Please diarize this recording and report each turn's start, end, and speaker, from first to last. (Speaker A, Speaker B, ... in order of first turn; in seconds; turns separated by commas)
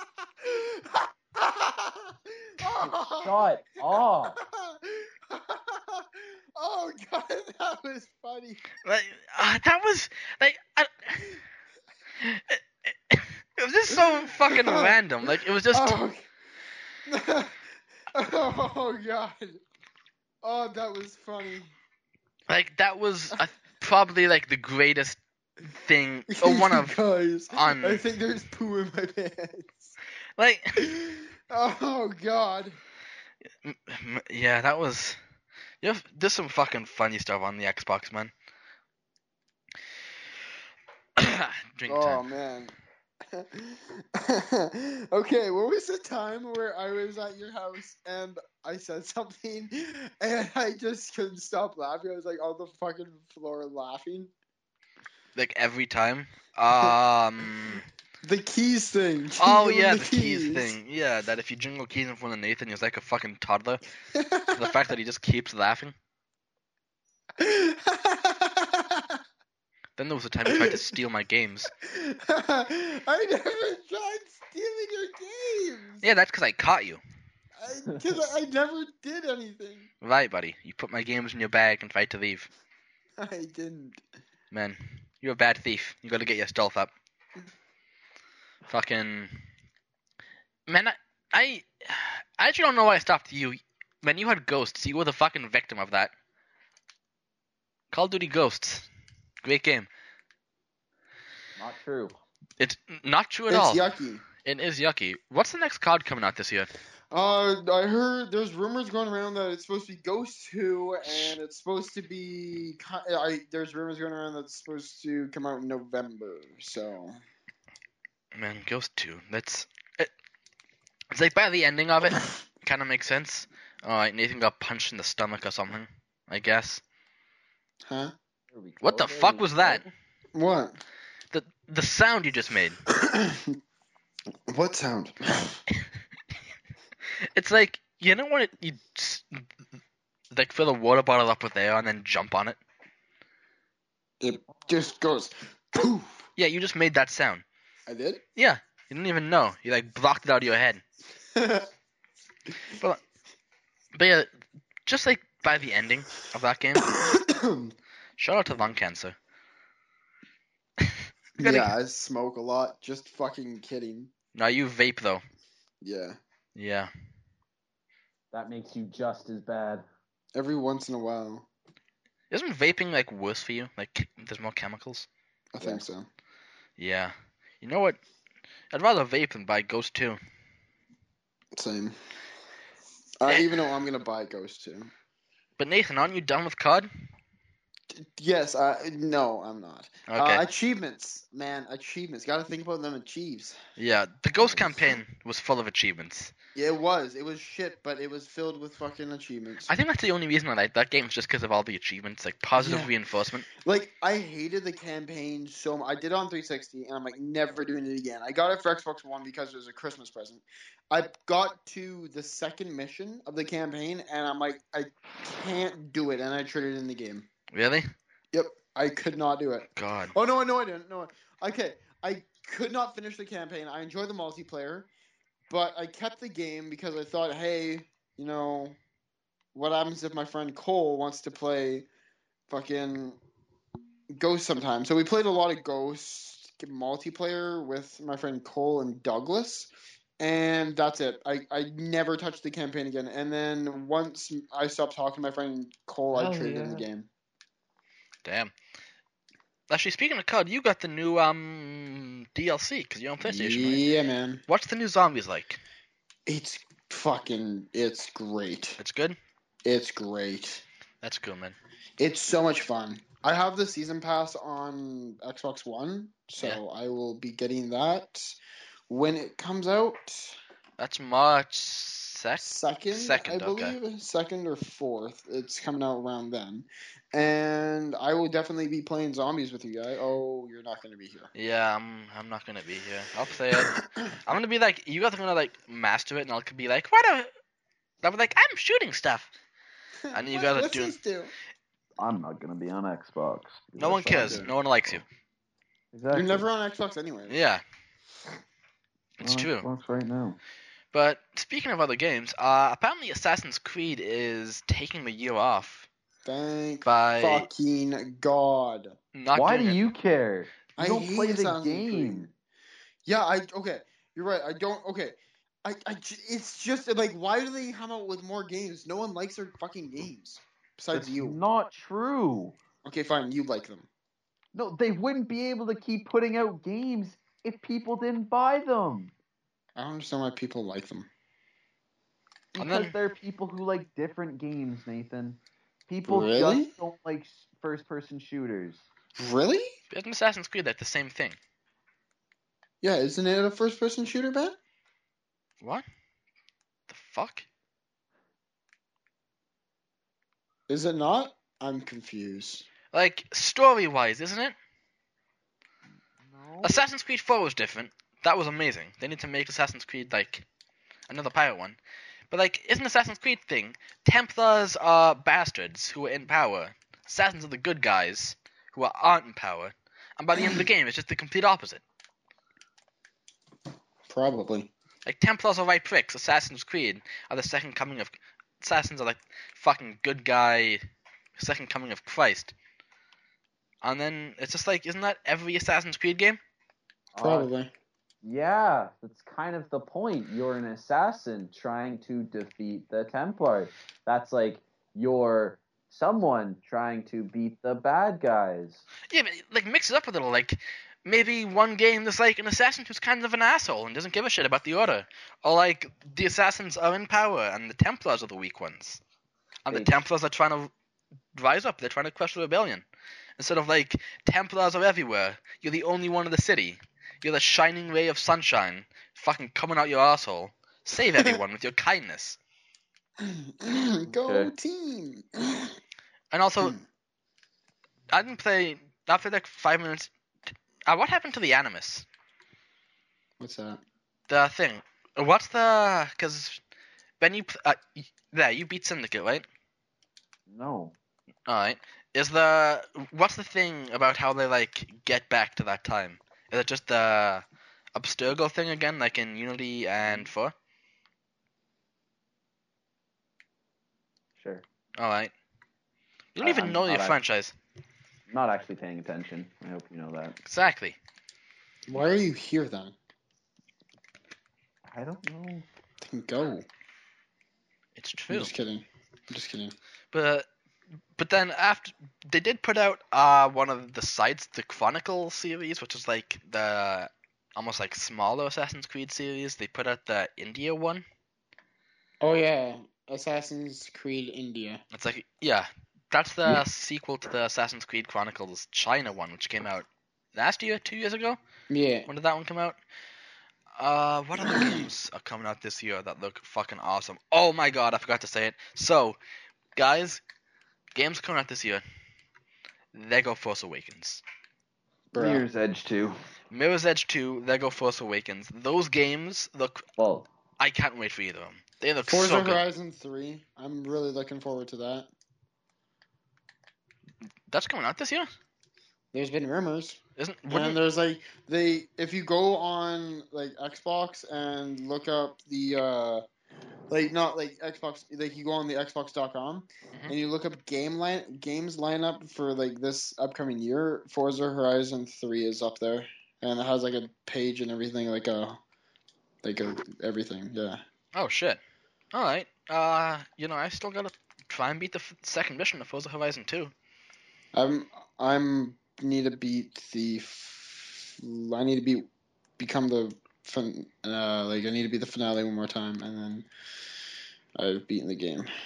Speaker A: 0.4-3.5, Speaker B: 2.6-4.4, Speaker A: 4.4-8.6, Speaker C: 8.8-11.3, Speaker C: 12.2-15.9, Speaker A: 14.0-16.2, Speaker A: 17.1-17.6, Speaker A: 18.1-19.6, Speaker A: 20.4-21.7, Speaker C: 22.5-27.0, Speaker A: 26.3-29.9, Speaker C: 27.5-28.0, Speaker C: 30.4-30.9, Speaker A: 30.8-32.8, Speaker C: 33.6-35.2, Speaker C: 35.8-38.3, Speaker C: 41.2-42.2, Speaker A: 41.9-42.7, Speaker A: 43.3-54.3, Speaker C: 55.3-57.9, Speaker A: 58.2-60.7, Speaker C: 59.4-63.8, Speaker A: 64.1-64.7, Speaker C: 64.5-66.0, Speaker A: 67.4-69.2, Speaker C: 70.0-71.7, Speaker A: 70.5-71.0, Speaker A: 71.8-76.0, Speaker C: 76.0-77.0, Speaker A: 77.6-79.9, Speaker B: 77.9-78.2, Speaker C: 80.0-82.5, Speaker A: 83.2-84.0, Speaker C: 84.5-86.9, Speaker C: 88.7-89.4, Speaker C: 90.7-96.1, Speaker C: 97.9-98.9, Speaker C: 99.4-99.9, Speaker B: 101.6-102.1, Speaker C: 102.6-103.8, Speaker A: 103.5-104.2, Speaker C: 104.3-106.7, Speaker A: 107.1-117.2, Speaker C: 111.0-111.3, Speaker C: 118.3-120.1, Speaker C: 121.1-126.8, Speaker A: 127.8-128.1, Speaker B: 128.5-129.9, Speaker C: 128.8-129.8, Speaker A: 130.3-130.8, Speaker C: 131.3-132.8, Speaker A: 132.9-133.6, Speaker A: 134.5-135.6, Speaker C: 137.3-139.4, Speaker C: 140.3-142.6, Speaker A: 144.2-146.2, Speaker C: 146.4-147.4, Speaker A: 147.9-148.2, Speaker C: 148.3-150.8, Speaker A: 151.3-151.7, Speaker C: 152.7-153.0, Speaker C: 153.9-154.3, Speaker C: 154.8-156.9, Speaker A: 156.8-157.7, Speaker C: 158.2-159.2, Speaker C: 160.8-161.7, Speaker A: 161.4-164.1, Speaker C: 164.3-165.2, Speaker A: 165.8-166.2, Speaker C: 166.6-166.9, Speaker B: 168.3-169.8, Speaker A: 170.3-171.4, Speaker C: 172.3-175.1, Speaker A: 175.5-176.1, Speaker C: 176.8-178.0, Speaker C: 178.7-180.2, Speaker A: 181.5-182.0, Speaker A: 183.2-184.9, Speaker C: 183.2-183.6, Speaker C: 185.6-186.9, Speaker A: 187.9-193.6, Speaker C: 190.1-190.4, Speaker C: 193.8-196.3, Speaker A: 194.4-195.0, Speaker A: 196.5-199.7, Speaker C: 199.7-203.4, Speaker A: 202.6-202.9, Speaker A: 203.6-217.3, Speaker C: 217.5-217.9, Speaker A: 218.3-224.9, Speaker C: 219.7-220.1, Speaker A: 225.5-228.8, Speaker A: 229.5-231.8, Speaker A: 232.5-233.2, Speaker A: 234.1-247.1, Speaker B: 246.1-246.9, Speaker C: 248.2-248.5, Speaker C: 249.7-253.8, Speaker A: 253.2-254.4, Speaker C: 254.5-255.6, Speaker A: 256.3-258.8, Speaker C: 258.8-259.2, Speaker A: 259.6-260.6, Speaker C: 261.0-261.6, Speaker A: 262.0-268.4, Speaker A: 268.9-270.4, Speaker C: 270.8-273.8, Speaker A: 272.4-281.3, Speaker C: 281.3-287.3, Speaker A: 283.5-283.9, Speaker C: 288.0-289.3, Speaker A: 290.0-291.3, Speaker C: 290.1-290.9, Speaker B: 292.0-294.5, Speaker C: 293.8-295.0, Speaker A: 294.2-294.5, Speaker B: 295.9-296.5, Speaker A: 296.1-297.4, Speaker C: 297.3-297.6, Speaker C: 299.2-299.7, Speaker B: 299.2-300.4, Speaker C: 300.9-305.9, Speaker A: 306.2-308.9, Speaker C: 306.8-307.5, Speaker C: 309.1-309.8, Speaker B: 309.3-312.3, Speaker A: 310.8-312.3, Speaker A: 313.1-321.4, Speaker B: 320.9-322.6, Speaker A: 322.8-323.9, Speaker B: 324.5-329.1, Speaker A: 329.8-331.1, Speaker B: 332.5-338.8, Speaker C: 332.6-332.9, Speaker A: 336.1-336.7, Speaker A: 339.2-339.6, Speaker C: 339.9-341.4, Speaker A: 342.8-344.6, Speaker C: 346.9-347.4, Speaker A: 350.7-352.6, Speaker C: 352.9-354.6, Speaker B: 356.2-356.8, Speaker C: 356.6-360.4, Speaker C: 361.1-361.8, Speaker C: 362.3-371.8, Speaker A: 370.4-370.6, Speaker A: 374.1-374.7, Speaker C: 375.0-380.8, Speaker C: 381.4-382.5, Speaker C: 383.8-386.4, Speaker B: 387.1-387.5, Speaker A: 387.2-387.7, Speaker B: 388.2-398.8, Speaker C: 399.1-409.0, Speaker C: 409.6-410.7, Speaker B: 409.7-410.0, Speaker C: 411.3-412.8, Speaker C: 413.4-422.4, Speaker A: 423.2-425.8, Speaker B: 424.1-424.5, Speaker C: 426.3-426.8, Speaker C: 428.1-430.1, Speaker C: 430.9-432.1, Speaker A: 433.4-433.8, Speaker C: 434.3-436.6, Speaker C: 437.2-439.4, Speaker B: 440.5-440.9, Speaker C: 441.5-447.4, Speaker C: 447.9-450.5, Speaker B: 450.0-450.3, Speaker B: 454.4-454.6, Speaker C: 455.0-455.3, Speaker C: 456.3-457.5, Speaker B: 456.4-457.2, Speaker B: 458.3-460.4, Speaker C: 460.4-461.0, Speaker A: 461.9-462.9, Speaker B: 464.9-465.7, Speaker A: 466.0-466.6, Speaker C: 467.9-468.5, Speaker A: 468.3-469.7, Speaker C: 470.1-470.5, Speaker C: 471.2-481.0, Speaker A: 482.2-484.8, Speaker C: 484.9-491.4, Speaker A: 491.7-492.1, Speaker C: 492.1-492.8, Speaker C: 493.8-499.2, Speaker A: 494.4-494.8, Speaker C: 499.8-500.2, Speaker C: 500.9-501.8, Speaker C: 502.9-504.2, Speaker A: 505.1-505.4, Speaker B: 505.1-506.1, Speaker C: 506.5-509.9, Speaker B: 510.0-510.3, Speaker C: 510.6-512.6, Speaker A: 512.1-515.1, Speaker C: 517.5-518.3, Speaker A: 519.1-520.0, Speaker C: 520.2-520.8, Speaker A: 520.5-526.2, Speaker A: 526.9-538.6, Speaker A: 539.4-540.8, Speaker C: 541.1-541.6, Speaker C: 542.1-546.7, Speaker A: 547.5-552.1, Speaker A: 552.6-556.5, Speaker A: 557.5-558.5